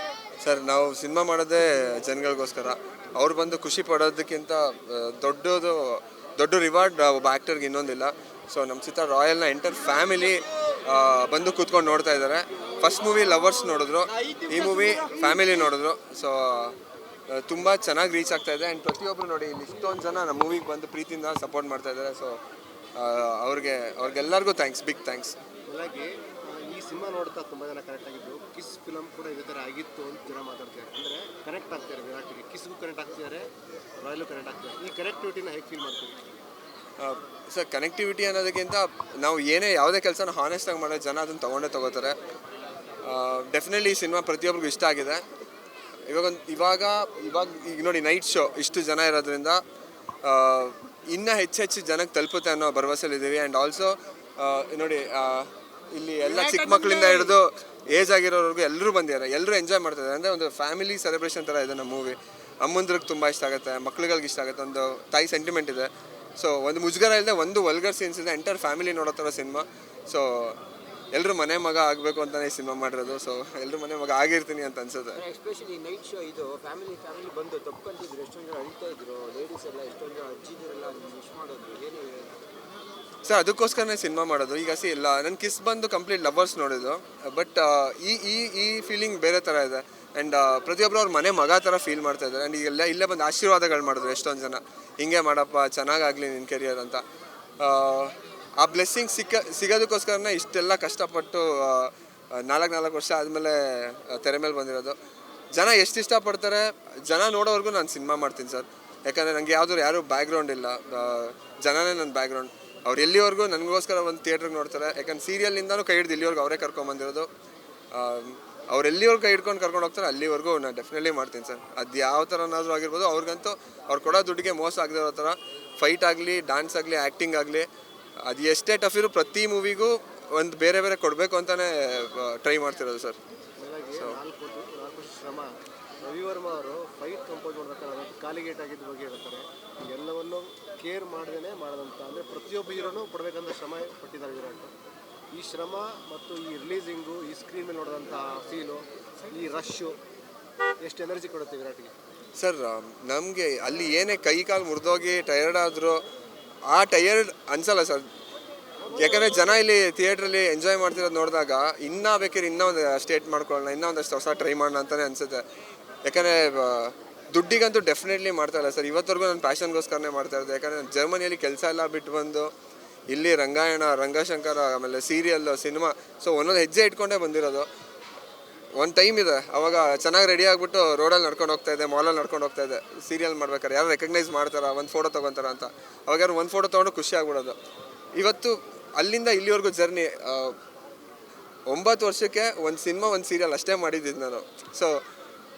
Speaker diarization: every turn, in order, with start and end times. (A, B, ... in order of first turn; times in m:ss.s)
0:00.4-0:16.8 A
0:17.3-0:22.4 A
0:23.0-0:25.4 A
0:25.7-0:33.5 B
0:34.0-0:36.2 B
0:37.0-0:42.2 A
0:43.0-0:45.2 A
0:46.1-0:49.6 A
0:50.2-1:10.6 A
0:56.5-0:57.3 C
1:11.1-1:15.2 A
1:15.2-1:22.4 C
1:23.2-1:37.0 A
1:37.6-1:45.0 A
1:45.6-1:57.3 A
1:57.9-2:07.7 A
2:08.3-2:13.2 A
2:13.6-2:15.5 B
2:16.0-2:24.7 B
2:25.3-2:30.0 B
2:30.8-2:31.9 B
2:32.4-2:36.0 A
2:36.7-2:38.0 A
2:39.0-2:45.4 A
2:46.0-2:52.5 A
2:53.1-2:57.7 A
2:58.8-3:07.6 A
3:08.2-3:10.6 A
3:11.7-3:15.0 A